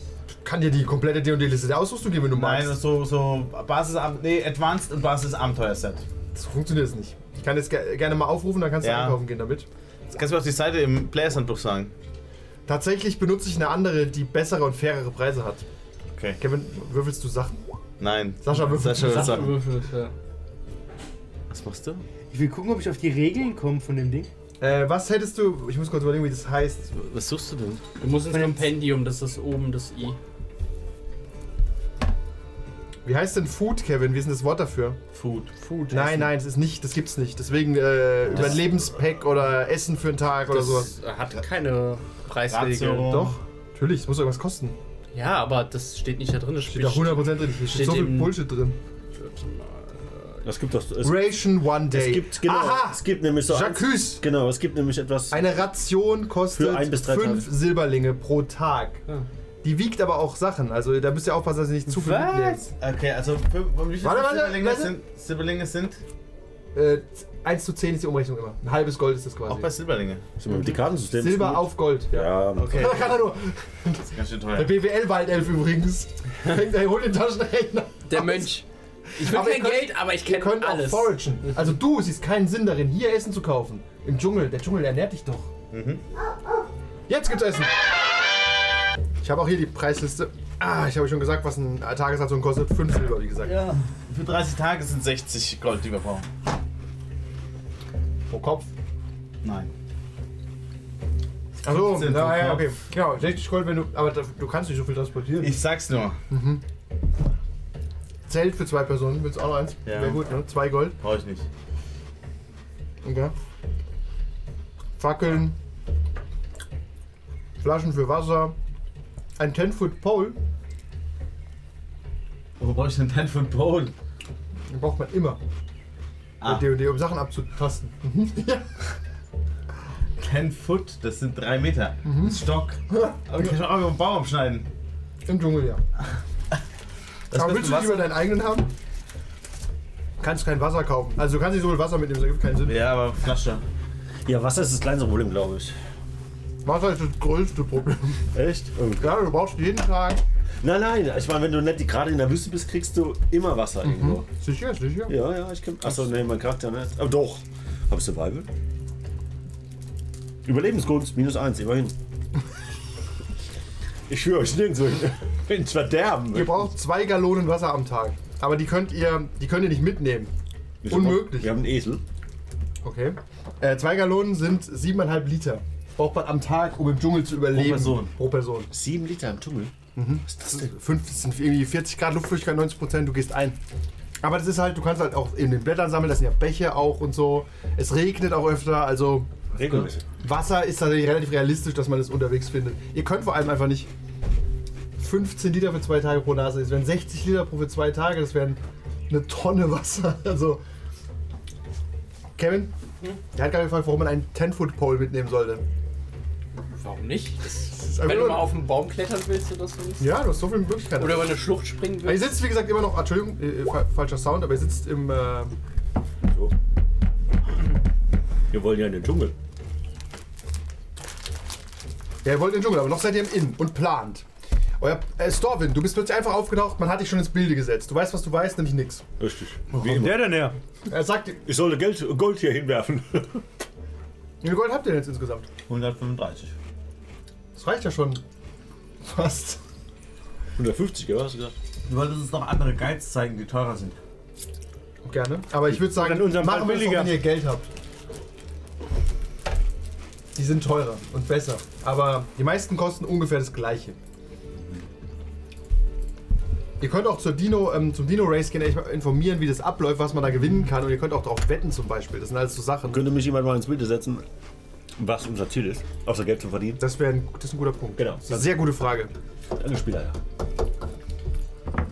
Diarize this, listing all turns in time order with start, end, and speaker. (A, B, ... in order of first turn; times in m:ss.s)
0:00.4-0:02.8 A
0:02.3-0:06.0 B
0:06.4-0:09.7 A
0:08.8-0:09.2 B
0:10.1-0:11.9 B
0:12.7-0:15.6 A
0:16.1-0:16.4 B
0:16.4-0:17.6 A
0:18.0-0:19.6 B
0:18.4-0:19.6 A
0:18.9-0:20.1 C
0:21.5-0:22.0 B
0:22.3-0:24.3 D
0:24.6-0:26.9 A
0:27.0-0:27.8 B
0:28.0-0:30.2 C
0:28.3-0:28.7 D
0:33.0-0:35.0 A
0:35.1-0:35.5 B
0:35.6-0:36.3 C
0:35.9-0:40.9 A
0:38.3-0:38.6 B
0:40.5-0:43.2 C
0:42.5-0:43.4 B
0:43.0-0:44.8 A
0:45.1-0:48.4 C
0:46.6-0:48.8 A
0:49.1-0:50.4 C
0:50.4-0:55.6 E
0:51.0-0:54.2 A
0:55.3-0:59.0 A
0:56.5-0:57.5 E
0:59.6-1:02.7 A
1:02.0-1:02.6 C
1:02.7-1:06.0 B
1:04.0-1:04.9 A
1:06.7-1:09.7 A
1:09.5-1:10.2 B
1:10.4-1:13.1 E
1:10.5-1:18.6 A
1:12.6-1:13.2 B
1:14.1-1:14.8 B
1:18.1-1:21.2 C
1:19.2-1:25.5 A
1:25.7-1:26.0 B
1:27.1-1:27.7 A
1:29.2-1:33.5 A
1:33.4-1:36.3 B
1:38.3-1:38.7 A
1:39.4-1:39.7 B
1:41.6-1:45.6 A
1:41.7-1:42.7 B
1:45.4-1:46.2 B
1:46.3-1:46.6 A
1:48.3-1:51.0 A
1:49.8-1:50.2 B
1:51.0-1:51.5 B
1:53.0-1:53.3 A
1:55.0-1:55.6 A
1:57.6-1:58.6 A
1:59.4-2:00.4 A
2:02.6-2:03.9 B
2:04.7-2:05.4 A
2:06.4-2:06.7 B
2:06.4-2:08.7 A
2:10.2-2:14.7 B
2:12.0-2:13.6 A
2:15.3-2:15.8 A
2:17.3-2:18.1 B
2:17.3-2:18.7 A
2:20.2-2:22.8 A
2:22.6-2:23.6 B
2:24.2-2:25.8 E
2:26.6-2:28.2 A
2:28.3-2:29.3 E
2:29.0-2:30.2 A
2:30.6-2:34.3 E
2:33.8-2:35.2 A
2:35.1-2:38.5 E
2:40.4-2:42.0 E
2:44.1-2:46.7 E
2:46.3-2:50.3 A
2:50.8-2:52.0 E
2:50.9-2:51.5 A
2:52.8-2:58.7 A
2:57.5-2:58.1 B
2:58.7-2:59.7 E
3:00.0-3:03.6 A
3:04.2-3:13.9 A
3:09.5-3:10.0 E
3:15.0-3:20.6 A
3:22.4-3:22.7 A
3:23.3-3:25.6 A
3:26.8-3:30.2 C
3:27.7-3:28.5 A
3:30.0-3:31.5 A
3:31.0-3:32.3 C
3:32.0-3:35.5 A
3:36.2-3:36.5 E
3:38.5-3:39.4 E
3:42.2-3:44.2 A
3:44.8-3:49.0 A
3:49.2-3:50.5 E
3:49.8-3:50.6 D
3:50.9-3:51.4 A
3:51.5-3:53.4 E
3:54.4-3:55.5 A
3:55.7-3:56.6 B
3:57.6-3:58.2 A
3:59.0-3:59.6 A
4:00.6-4:01.6 E
4:01.9-4:04.0 B
4:05.0-4:07.7 A
4:05.8-4:07.2 D
4:10.4-4:14.0 A
4:16.8-4:23.1 A
4:22.9-4:24.2 E
4:25.0-4:26.8 E
4:26.8-4:29.1 A
4:28.0-4:28.6 E
4:29.6-4:30.2 E